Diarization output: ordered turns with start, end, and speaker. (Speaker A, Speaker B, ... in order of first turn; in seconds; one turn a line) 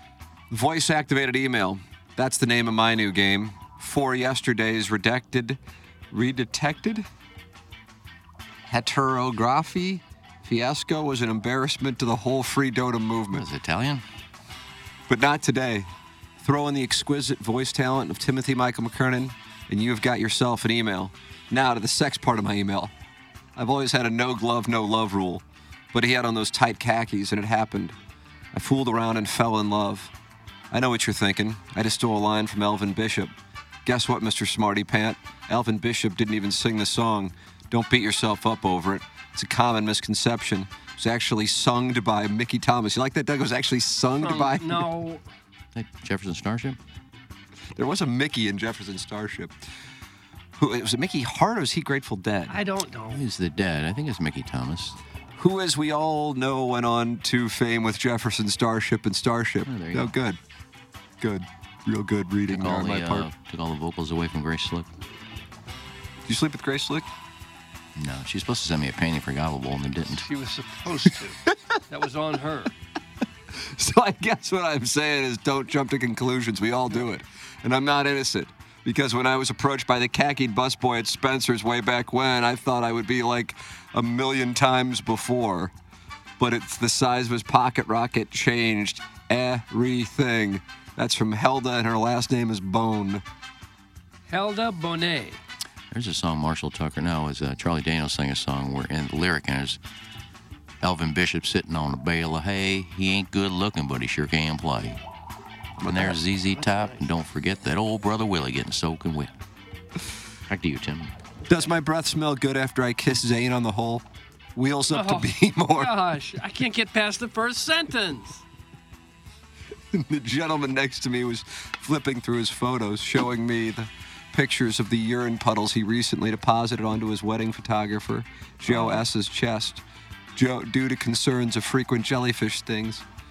Speaker A: 0.5-5.6
Speaker A: 6.1-7.0
Speaker A: 8.7-13.4
Speaker B: 13.3-14.0
Speaker A: 15.1-15.9
Speaker A: 16.4-22.9
Speaker A: 23.6-27.9
Speaker A: 28.5-30.1
Speaker A: 30.7-33.3
Speaker A: 33.9-44.9
Speaker C: 44.2-45.2
Speaker B: 45.7-46.8
Speaker A: 47.8-49.5
Speaker A: 50.6-52.6
Speaker C: 52.5-53.2
Speaker B: 53.1-55.0
Speaker A: 55.4-60.4
Speaker B: 59.6-60.1
Speaker A: 61.2-63.3
Speaker B: 62.5-64.9
Speaker A: 66.2-67.0
Speaker B: 68.0-70.3
Speaker C: 70.2-71.4
Speaker C: 71.9-72.7
Speaker A: 73.6-85.7
Speaker A: 86.4-93.2
Speaker C: 94.3-95.4
Speaker B: 95.9-99.8
Speaker B: 100.8-105.0
Speaker A: 105.8-106.2
Speaker B: 105.8-109.3
Speaker C: 106.6-107.0
Speaker B: 110.5-111.1
Speaker A: 111.5-114.0
Speaker A: 114.5-115.9
Speaker C: 114.9-118.4
Speaker A: 119.9-129.8
Speaker A: 130.3-133.0